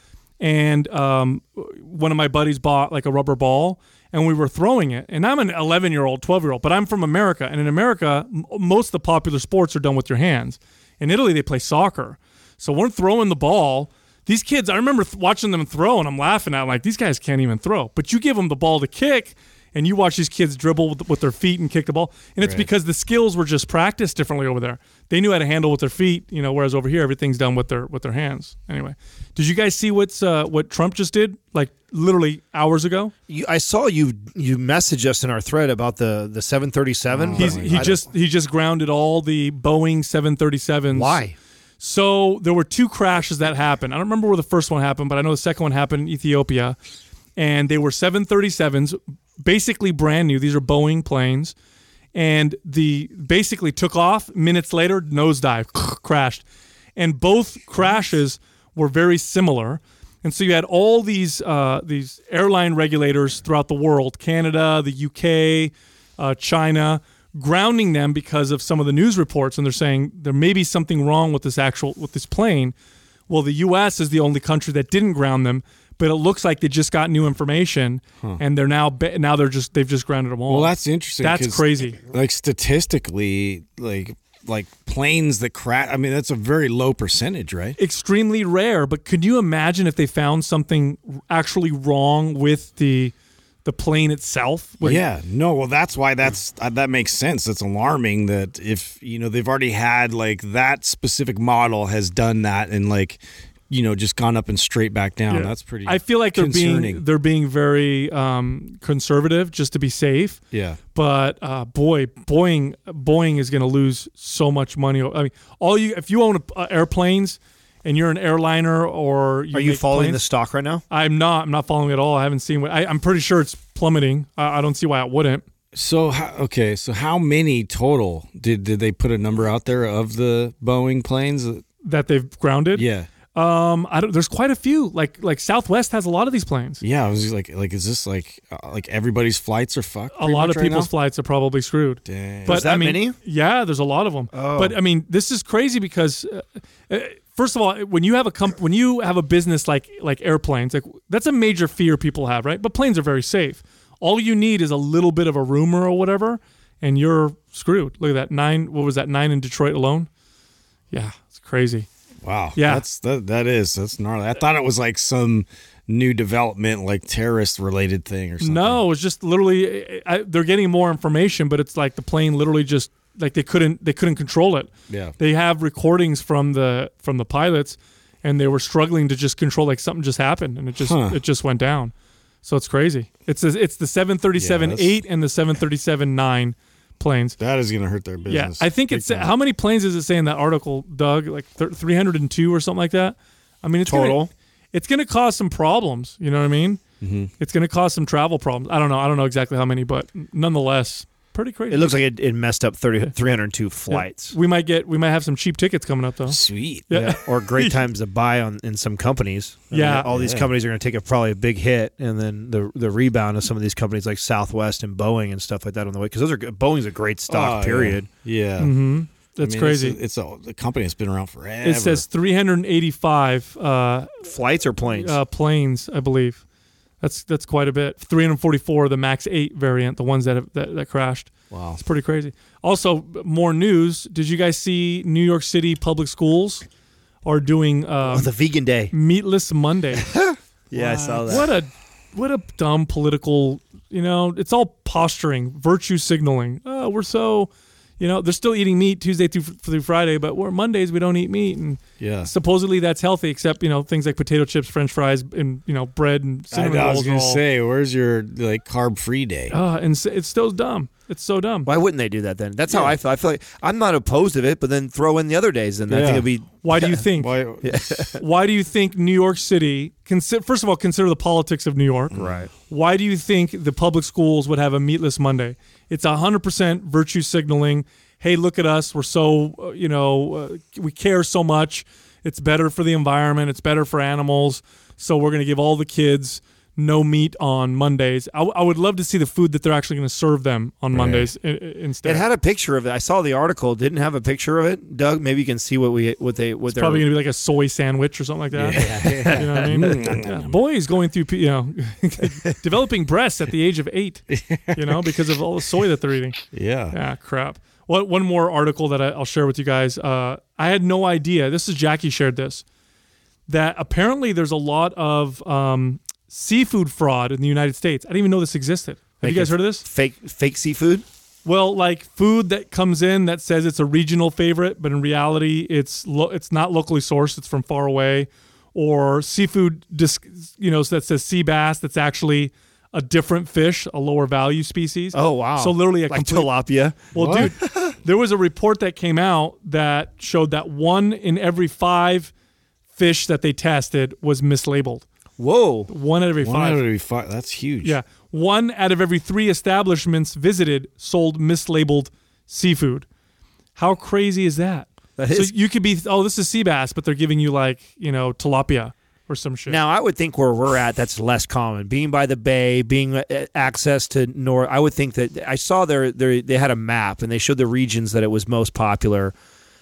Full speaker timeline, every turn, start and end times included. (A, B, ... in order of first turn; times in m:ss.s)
0:00.4-0:33.1 A
0:22.4-0:22.7 B
0:33.3-0:38.0 C
0:37.1-0:37.9 B
0:37.4-0:41.2 A
0:40.9-0:41.3 C
0:41.8-0:46.8 A
0:47.4-0:51.5 A
0:52.1-0:56.4 A
0:57.0-1:12.7 A
1:13.3-1:22.0 A
1:20.5-1:27.8 B
1:27.8-1:33.1 A
1:33.6-1:35.0 A
1:34.8-1:47.0 B
1:45.3-1:50.4 A
1:50.5-1:50.8 B
1:50.9-2:00.2 A
1:59.5-2:00.8 C
2:00.9-2:05.4 A
2:05.7-2:11.6 B
2:11.8-2:16.8 A
2:12.7-2:13.1 B
2:16.8-2:20.9 B
2:20.1-2:40.1 A
2:22.0-2:22.6 B
2:22.4-2:23.2 C
2:24.3-2:24.8 C
2:40.9-2:41.9 A
2:42.2-2:48.8 B
2:42.6-2:42.8 A
2:48.4-3:01.9 A
2:54.9-2:55.2 B
3:00.8-3:01.2 B
3:02.4-3:07.4 A
3:04.3-3:04.9 B
3:07.4-3:09.3 B
3:08.3-3:16.8 A
3:13.8-3:14.3 C
3:17.0-3:17.3 B
3:17.4-3:21.9 A
3:21.7-3:24.3 C
3:23.9-3:27.7 A
3:26.3-3:26.9 B
3:26.9-3:38.1 C
3:29.7-3:30.0 A
3:30.0-3:30.5 B
3:37.3-3:38.7 B
3:38.6-3:40.0 A
3:39.4-3:42.0 B
3:41.6-3:44.3 A
3:44.2-3:45.2 C
3:44.9-3:46.4 A
3:47.0-3:56.6 A
3:51.5-3:51.8 B
3:57.2-3:58.3 A
3:58.1-3:58.9 C
3:58.9-4:00.0 A
4:00.0-4:01.5 C
4:00.7-4:01.5 B
4:01.3-4:17.4 A
4:12.0-4:12.3 B
4:16.5-4:19.5 B
4:19.5-4:21.7 A
4:21.6-4:27.0 C
4:22.7-4:23.0 B
4:25.9-4:26.3 B
4:26.6-4:27.3 A
4:27.1-4:28.2 B
4:27.6-4:28.1 C
4:28.2-4:32.1 A
4:32.1-4:32.5 B
4:32.1-4:32.5 C
4:32.7-4:52.2 A
4:50.9-4:51.3 B
4:52.0-4:57.1 C
4:56.7-5:06.4 A
4:58.5-5:00.6 B
4:58.7-4:59.7 C
5:04.3-5:05.4 B
5:06.5-5:07.0 B
5:06.9-5:12.6 A
5:13.5-5:19.8 A
5:19.2-5:21.0 C
5:21.4-5:36.5 A
5:35.1-5:38.0 C
5:37.1-5:42.3 A
5:37.1-5:37.5 B
5:43.0-5:45.0 A
5:45.4-5:45.9 C
5:45.9-5:46.8 A
5:46.4-5:48.0 B
5:47.8-5:53.0 A
5:53.8-5:59.8 A
5:55.2-5:55.5 C
5:59.7-6:09.3 C